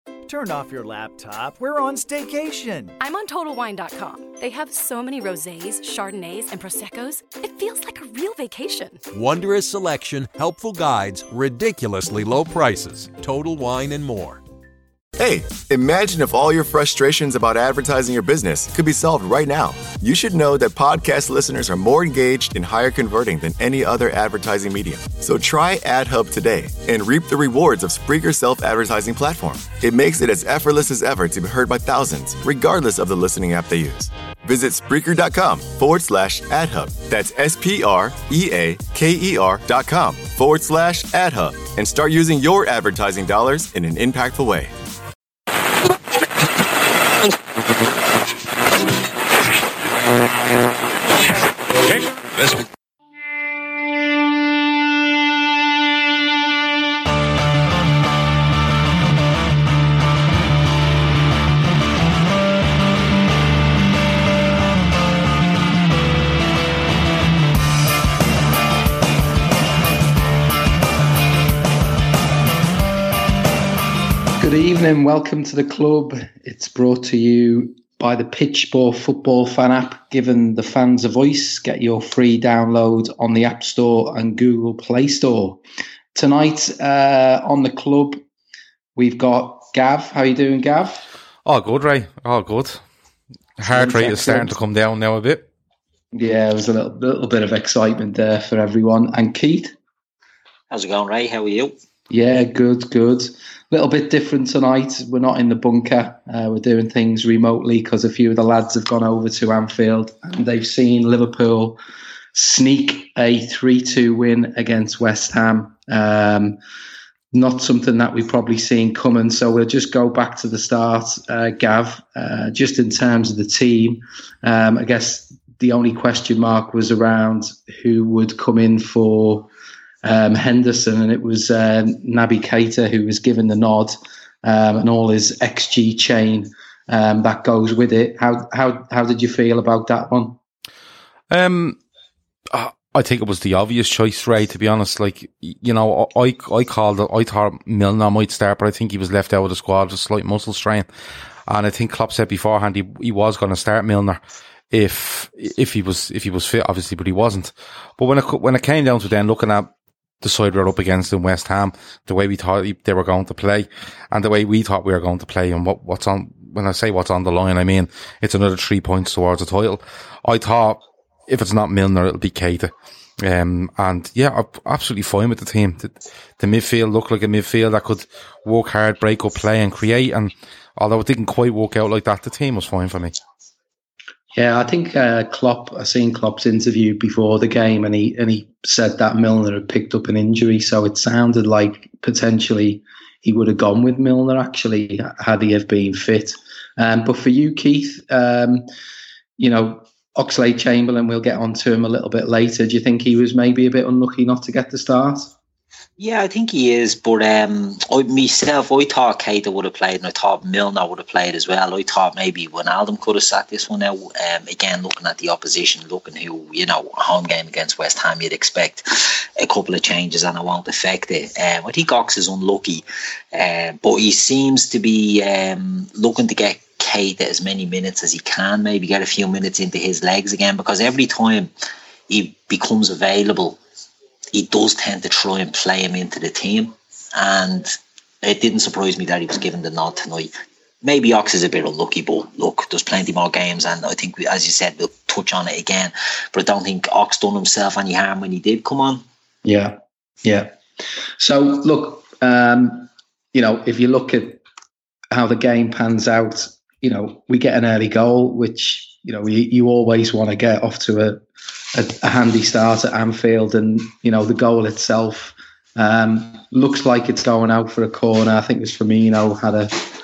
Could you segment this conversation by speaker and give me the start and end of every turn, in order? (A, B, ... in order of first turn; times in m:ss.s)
0:00.3-0:02.9 A
0:03.0-0:09.0 B
0:09.1-0:14.4 C
0:15.2-0:44.7 D
1:14.4-1:25.6 E
1:26.1-1:28.2 E
1:29.0-1:31.0 E
1:31.4-1:32.8 F
1:33.6-1:34.5 E
1:33.6-1:35.5 F
1:36.1-1:39.7 E
1:40.7-1:41.7 G
1:42.1-1:51.8 E
1:52.3-1:56.6 E
1:57.3-2:09.5 E
2:10.0-2:20.4 E
2:21.3-2:21.8 F
2:22.5-2:30.8 F
2:31.5-2:34.2 F
2:34.7-2:39.7 F
2:40.2-3:03.1 F
3:04.3-3:18.6 E
3:19.4-3:25.3 E
3:26.0-3:51.5 G
3:52.1-3:53.6 G
3:54.3-4:00.3 G
4:00.8-4:09.0 G
4:09.4-4:10.5 E
4:11.2-4:14.4 E
4:15.1-4:29.7 E